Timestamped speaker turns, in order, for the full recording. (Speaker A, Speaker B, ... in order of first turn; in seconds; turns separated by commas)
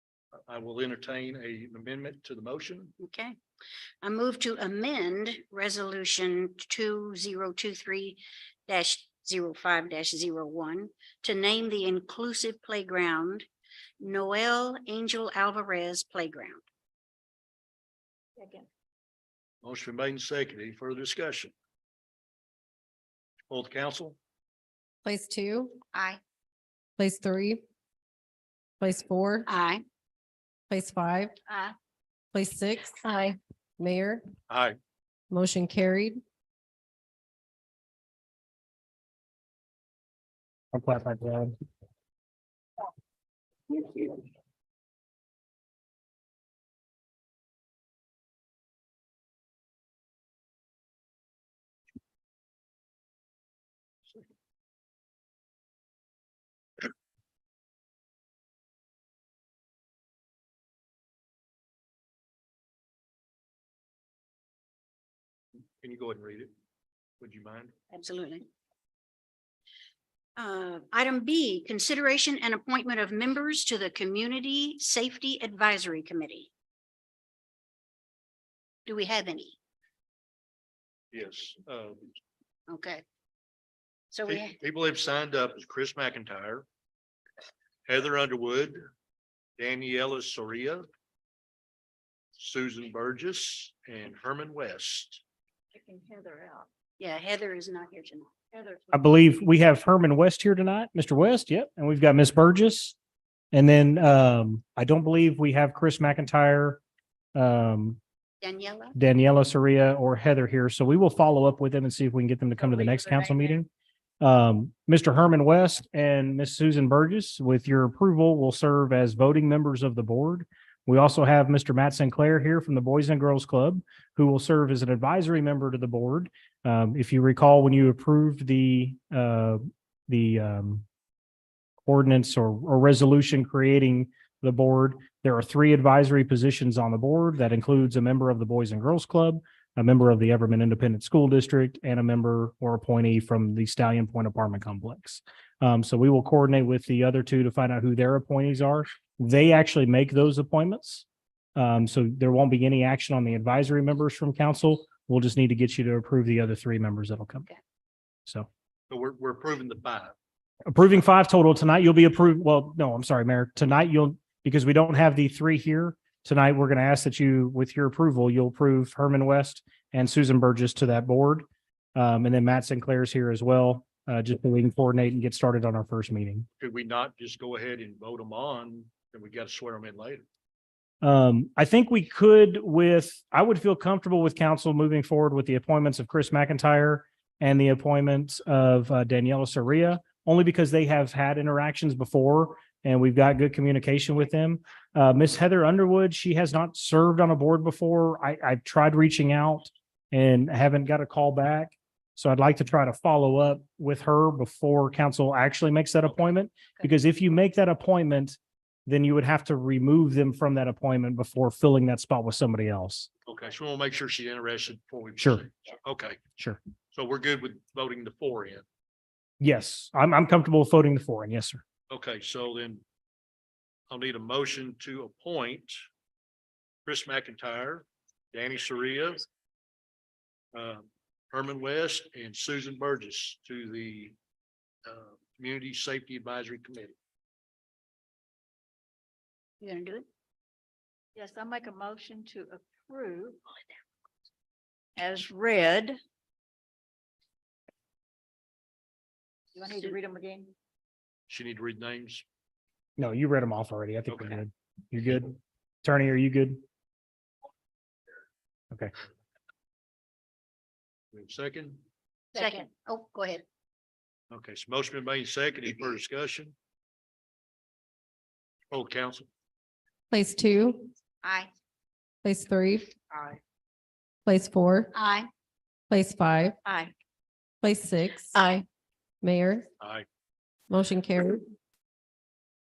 Speaker A: 0.5-2.9, Speaker B: 3.0-3.3, Speaker B: 4.0-13.5, Speaker B: 14.0-16.6, Speaker C: 18.4-18.7, Speaker A: 19.6-21.5, Speaker A: 23.5-24.2, Speaker D: 25.1-25.8, Speaker D: 27.0-27.6, Speaker D: 28.8-29.4, Speaker B: 29.5-29.8, Speaker D: 30.7-31.3, Speaker D: 32.3-33.0, Speaker D: 33.8-34.2, Speaker A: 34.5-34.8, Speaker D: 35.3-36.2, Speaker E: 40.7-41.5, Speaker A: 65.8-66.5, Speaker A: 67.2-67.7, Speaker B: 67.9-68.5, Speaker B: 70.4-76.5, Speaker B: 78.9-79.5, Speaker A: 81.1-82.1, Speaker B: 82.7-83.0, Speaker B: 84.1-84.5, Speaker A: 84.3-86.7, Speaker A: 87.9-88.8, Speaker A: 89.6-90.9, Speaker A: 92.4-95.2, Speaker C: 95.7-96.7, Speaker B: 97.0-98.3, Speaker C: 98.5-99.0, Speaker E: 98.9-103.0, Speaker E: 103.5-106.8, Speaker E: 107.3-108.0, Speaker B: 108.4-109.0, Speaker E: 109.0-113.7, Speaker C: 112.8-113.3, Speaker E: 114.2-130.8, Speaker E: 131.8-157.4, Speaker A: 158.9-160.1, Speaker E: 160.7-176.5, Speaker A: 176.6-180.2, Speaker E: 181.0-213.1, Speaker A: 213.2-216.2, Speaker E: 215.2-215.4, Speaker A: 216.9-218.6, Speaker E: 219.4-221.6, Speaker A: 221.9-222.8, Speaker A: 223.9-225.7, Speaker A: 226.8-229.2, Speaker A: 230.5-234.1, Speaker A: 234.8-236.9, Speaker B: 239.6-240.0, Speaker C: 241.2-243.4, Speaker C: 245.0-246.0, Speaker C: 249.5-250.5, Speaker A: 251.3-252.2, Speaker E: 253.0-256.6, Speaker A: 254.1-254.4, Speaker A: 261.1-261.8, Speaker B: 262.3-263.4, Speaker A: 264.3-266.6, Speaker A: 268.7-269.3, Speaker D: 270.1-270.9, Speaker D: 272.2-272.9, Speaker D: 274.2-274.9, Speaker B: 274.9-275.3, Speaker D: 275.9-276.5, Speaker D: 277.6-278.3, Speaker D: 279.2-279.6, Speaker A: 279.8-280.1, Speaker D: 280.7-281.4